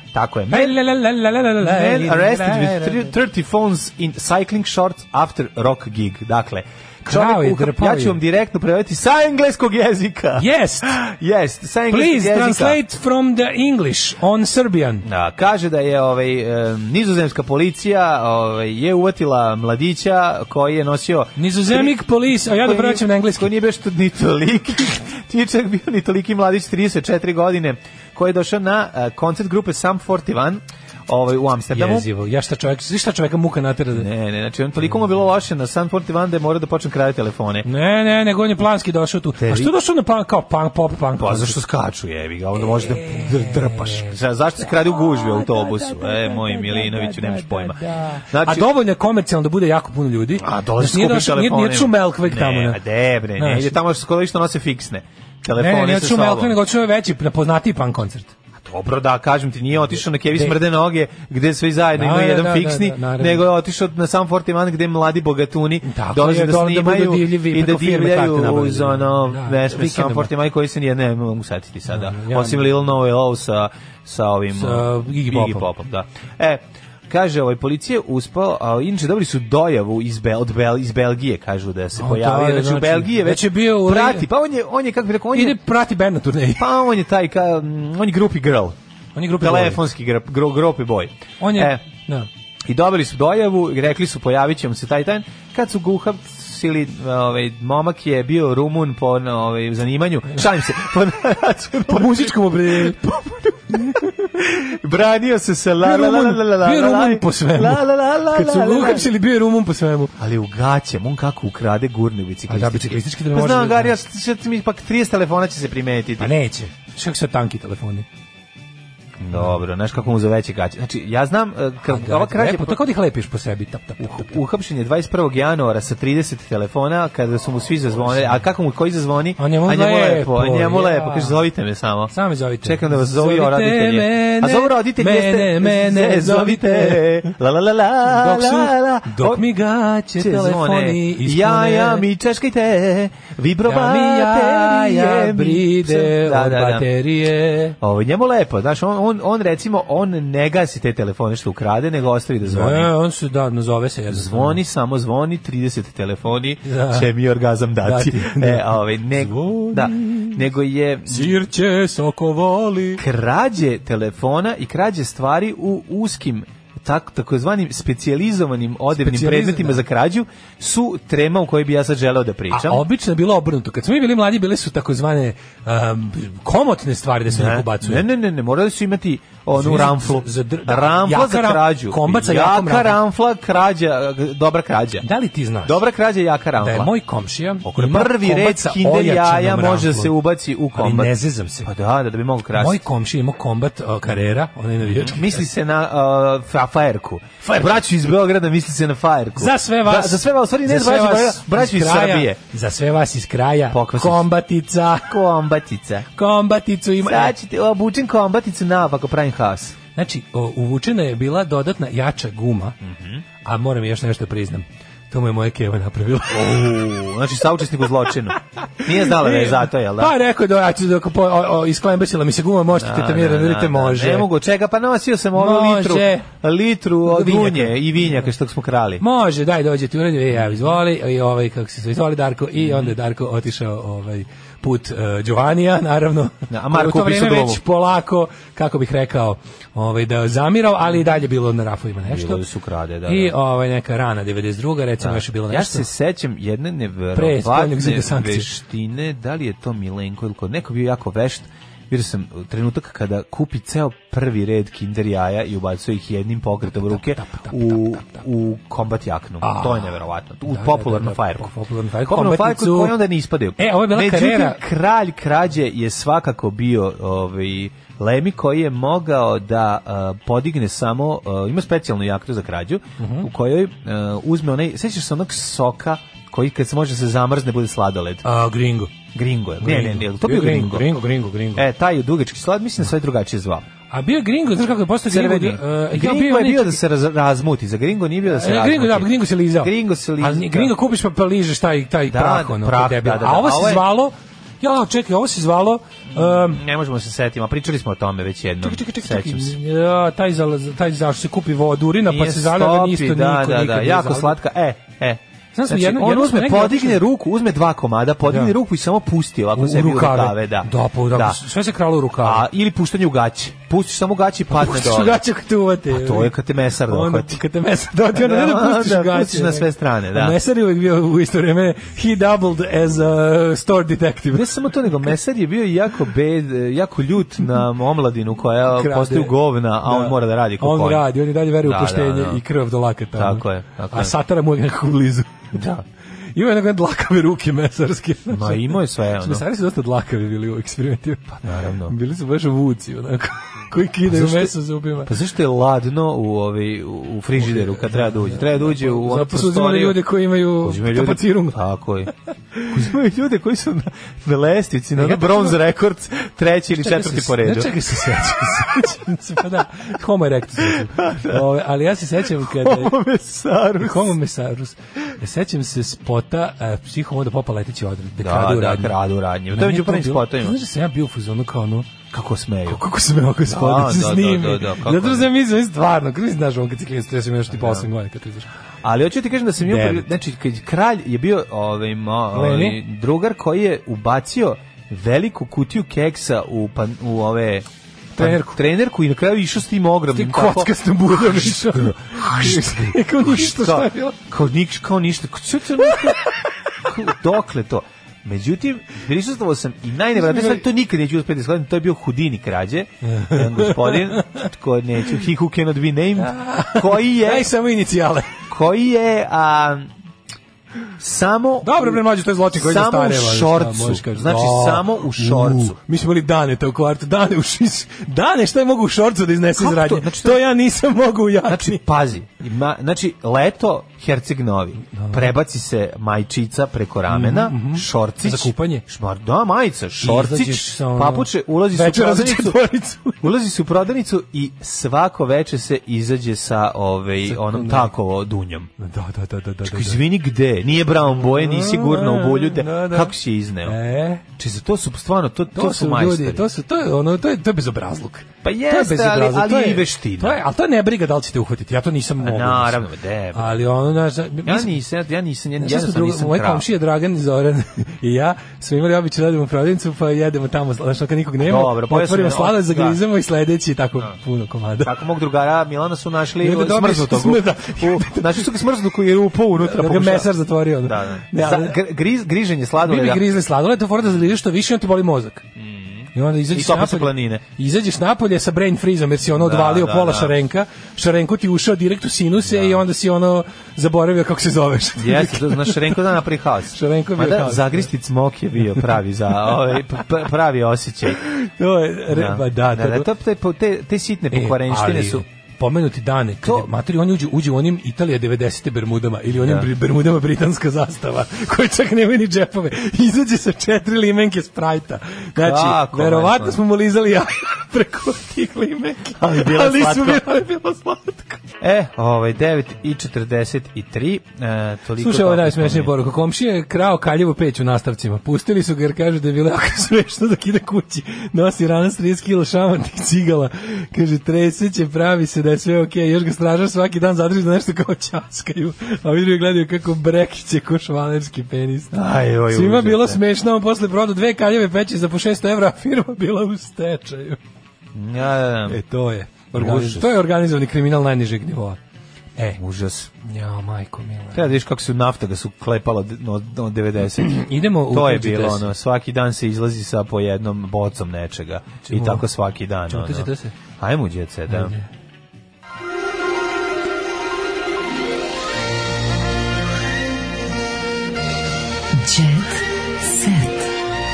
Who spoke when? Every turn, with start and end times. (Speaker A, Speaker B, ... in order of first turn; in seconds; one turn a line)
Speaker A: 0.1-0.8
Speaker B: 0.5-3.1
Speaker A: 1.6-12.8
Speaker B: 7.0-8.2
Speaker B: 10.4-11.0
Speaker B: 11.9-15.0
Speaker A: 15.0-32.1
Speaker B: 21.4-23.5
Speaker B: 31.7-34.1
Speaker A: 33.9-37.7
Speaker B: 37.6-41.6
Speaker A: 39.4-39.7
Speaker A: 41.2-48.7
Speaker B: 42.8-52.8
Speaker A: 50.4-56.6
Speaker B: 53.4-53.8
Speaker B: 55.5-58.3
Speaker A: 58.6-85.6
Speaker B: 60.3-60.6
Speaker B: 62.0-63.5
Speaker B: 65.8-70.3
Speaker B: 71.9-72.8
Speaker B: 74.5-75.7
Speaker B: 82.0-84.2
Speaker B: 85.3-86.7
Speaker A: 86.6-88.8
Speaker B: 89.1-89.8
Speaker A: 89.4-91.8
Speaker B: 91.4-92.3
Speaker A: 92.7-109.1
Speaker B: 101.8-104.1
Speaker B: 105.8-110.1
Speaker A: 110.2-116.3
Speaker B: 112.5-114.0
Speaker B: 116.2-118.0
Speaker A: 119.2-122.8
Speaker B: 121.9-124.4
Speaker A: 124.0-139.5
Speaker B: 129.4-131.4
Speaker B: 132.1-137.3
Speaker B: 138.0-142.1
Speaker A: 140.2-146.9
Speaker B: 143.6-147.8
Speaker A: 147.8-152.9
Speaker B: 152.5-154.6
Speaker A: 154.1-161.4
Speaker B: 156.6-157.1
Speaker B: 157.8-160.4
Speaker B: 161.1-163.0
Speaker A: 163.0-172.8
Speaker B: 168.9-169.8
Speaker B: 172.5-178.1
Speaker A: 177.3-185.0
Speaker B: 179.5-183.0
Speaker B: 185.0-185.8
Speaker A: 185.6-186.9
Speaker B: 186.6-190.2
Speaker A: 187.6-192.8
Speaker B: 190.7-191.7
Speaker B: 192.5-195.5
Speaker A: 194.8-202.4
Speaker B: 199.4-205.1
Speaker A: 203.7-204.3
Speaker A: 205.1-206.1
Speaker B: 206.2-207.3
Speaker A: 207.0-209.8
Speaker B: 209.9-212.7
Speaker A: 212.8-213.2
Speaker B: 213.4-216.6
Speaker A: 216.3-220.1
Speaker B: 218.9-224.3
Speaker A: 222.7-229.0
Speaker B: 225.3-226.3
Speaker B: 227.1-228.1
Speaker B: 229.0-242.4
Speaker A: 230.3-230.7
Speaker A: 232.6-232.9
Speaker A: 236.5-237.6
Speaker A: 242.1-243.3
Speaker B: 243.1-245.9
Speaker A: 245.0-261.5
Speaker B: 247.1-248.5
Speaker B: 256.7-258.2
Speaker B: 259.4-263.0
Speaker A: 262.1-278.2
Speaker B: 263.6-264.6
Speaker B: 273.0-273.3
Speaker B: 278.2-278.9
Speaker A: 279.1-280.9
Speaker B: 279.6-281.6
Speaker A: 281.5-283.6
Speaker B: 283.9-286.8
Speaker A: 285.1-290.7
Speaker B: 288.2-296.6
Speaker A: 292.1-293.9
Speaker A: 296.1-299.6
Speaker B: 298.6-304.4
Speaker A: 302.0-311.4
Speaker B: 305.5-307.0
Speaker B: 308.3-308.6
Speaker B: 309.6-312.5
Speaker A: 312.2-315.2
Speaker B: 314.5-324.5
Speaker A: 315.9-317.4
Speaker A: 318.1-320.4
Speaker A: 324.3-331.1
Speaker B: 328.7-335.5
Speaker A: 331.6-332.4
Speaker A: 333.1-334.1
Speaker A: 335.5-335.8
Speaker B: 336.3-345.1
Speaker A: 338.3-339.4
Speaker A: 341.4-341.9
Speaker A: 344.0-350.1
Speaker B: 347.4-351.6
Speaker A: 350.6-352.1
Speaker A: 352.6-357.7
Speaker B: 354.9-355.6
Speaker B: 356.8-362.9
Speaker A: 360.6-361.4
Speaker A: 362.3-364.1
Speaker B: 363.8-369.0
Speaker A: 368.2-370.6
Speaker B: 369.5-371.9
Speaker A: 372.1-372.8
Speaker B: 372.7-378.5
Speaker A: 373.5-375.3
Speaker A: 377.5-377.9
Speaker A: 378.8-396.3
Speaker B: 379.6-380.1
Speaker B: 382.3-382.8
Speaker B: 388.1-388.6
Speaker B: 390.1-394.2
Speaker B: 395.8-396.3
Speaker A: 396.8-407.5
Speaker B: 400.2-400.6
Speaker B: 403.0-404.4
Speaker B: 406.2-408.3
Speaker A: 408.5-409.9
Speaker A: 411.0-412.0
Speaker B: 411.6-421.8
Speaker A: 412.5-415.8
Speaker A: 419.6-420.4
Speaker A: 421.4-432.6
Speaker B: 424.9-425.3
Speaker B: 427.1-428.8
Speaker B: 430.0-433.2
Speaker A: 433.2-438.7
Speaker B: 437.3-437.9
Speaker B: 438.8-440.0
Speaker A: 439.6-443.8
Speaker B: 441.1-444.2
Speaker A: 444.3-446.5
Speaker B: 445.5-452.8
Speaker A: 448.4-450.4
Speaker A: 452.2-453.6
Speaker B: 453.3-454.7
Speaker A: 454.4-456.7
Speaker B: 455.6-464.9
Speaker A: 461.4-463.0
Speaker A: 464.8-473.3
Speaker B: 466.4-468.5
Speaker B: 469.6-471.8
Speaker B: 472.8-475.4
Speaker A: 475.6-477.4
Speaker B: 476.1-486.0
Speaker A: 479.3-480.4
Speaker A: 482.4-482.8
Speaker A: 485.0-491.2
Speaker B: 486.7-487.9
Speaker B: 491.2-493.1
Speaker A: 492.1-495.2
Speaker B: 494.3-511.4
Speaker A: 496.4-496.7
Speaker A: 499.4-499.7
Speaker A: 505.4-506.6
Speaker A: 509.2-510.3
Speaker A: 511.6-515.9
Speaker B: 515.0-537.4
Speaker A: 531.9-533.2
Speaker A: 537.9-538.8
Speaker B: 538.7-541.8
Speaker A: 539.5-540.2
Speaker A: 542.5-543.1
Speaker B: 543.2-544.5
Speaker A: 544.3-554.7
Speaker B: 547.2-548.7
Speaker B: 551.9-552.2
Speaker B: 552.9-553.5
Speaker B: 554.5-554.9
Speaker B: 561.9-563.5